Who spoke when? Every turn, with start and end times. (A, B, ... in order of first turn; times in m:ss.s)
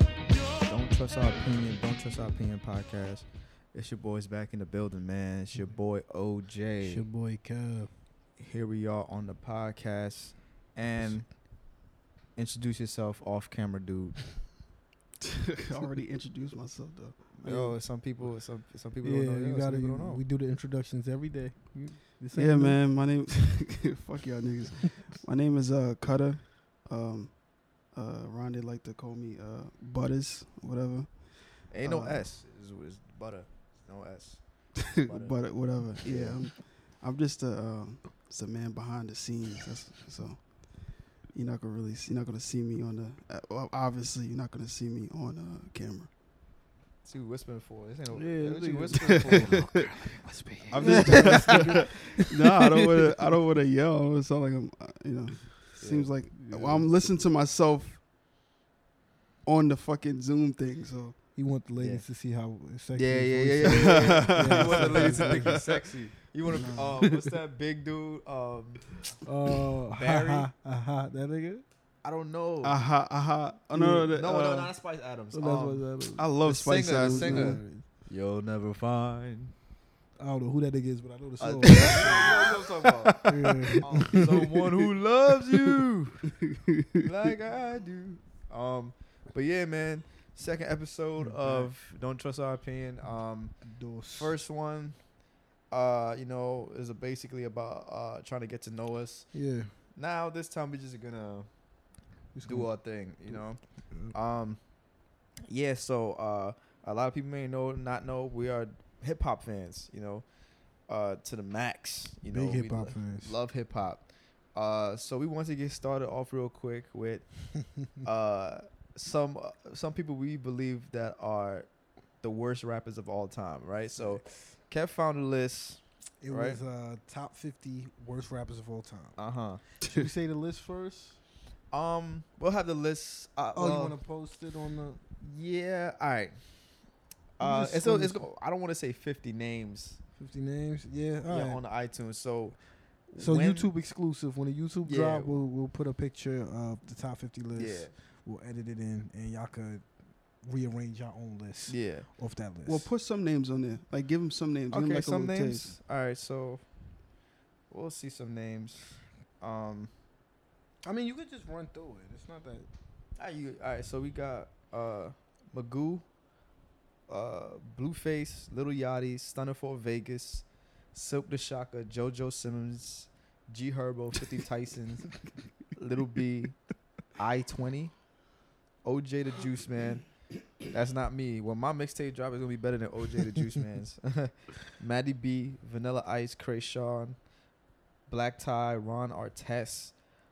0:00.6-0:07.0 A
0:06.8-0:07.9 B
0:08.4-0:11.2 A
0:12.4-0:14.2 A
0:15.2-0:17.8 C
0:17.4-0:20.2 A
0:19.0-0:22.8 B
0:22.4-0:27.3 C
0:27.9-0:31.1 C
0:31.7-0:34.4 A
0:31.8-0:32.2 C
0:34.9-0:40.4 C
0:35.0-0:35.3 A
0:36.0-0:36.4 A
0:41.3-0:46.1 C
0:47.0-0:49.9 A
0:48.1-0:53.2 B
0:48.9-0:49.6 C
0:50.7-0:51.9 A
0:50.7-0:58.0 C
0:55.8-0:56.1 A
0:56.3-0:56.9 B
0:59.4-1:01.2 C
1:01.4-1:05.6 B
1:01.8-1:02.0 A
1:03.0-1:08.8 A
1:03.6-1:05.8 C
1:06.5-1:07.3 B
1:09.2-1:11.6 B
1:09.9-1:10.5 A
1:12.0-1:12.8 A
1:12.6-1:14.7 C
1:13.7-1:14.1 B
1:14.1-1:15.8 A
1:15.3-1:16.3 B
1:16.2-1:17.6 C
1:16.4-1:19.5 A
1:17.0-1:17.8 B
1:20.2-1:22.6 B
1:21.4-1:26.3 A
1:21.6-1:22.5 C
1:23.2-1:24.4 B
1:23.8-1:24.5 C
1:26.4-1:27.1 C
1:27.0-1:33.5 A
1:31.2-1:31.7 B
1:33.6-1:34.3 B
1:34.1-1:35.0 A
1:35.7-1:39.3 A
1:39.3-1:39.7 B
1:40.0-1:41.5 A
1:42.3-1:42.7 B
1:42.4-1:43.6 A
1:43.3-1:44.1 B
1:44.1-1:44.6 A
1:45.5-1:50.2 A
1:50.9-1:57.2 A
1:52.3-1:53.3 B
1:58.0-2:01.7 A
2:02.2-2:06.6 A
2:06.2-2:09.2 B
2:09.2-2:09.6 A
2:09.8-2:11.2 B
2:11.7-2:14.0 A
2:13.5-2:15.0 B
2:15.2-2:16.3 A
2:17.4-2:20.0 A
2:17.4-2:18.2 B
2:20.2-2:21.6 B
2:21.3-2:22.6 A
2:23.1-2:23.7 A
2:23.2-2:29.8 B
2:24.8-2:25.3 A
2:27.6-2:27.9 A
2:30.4-2:32.9 B
2:31.7-2:32.1 A
2:32.7-2:35.7 C
2:34.7-2:36.6 A
2:37.7-2:39.9 A
2:40.8-2:42.7 B
2:43.2-2:46.0 A
2:47.1-2:55.1 A
2:55.8-2:56.5 A
2:57.2-2:57.9 A
2:58.8-3:00.0 A
3:00.7-3:07.2 A
3:08.1-3:09.9 A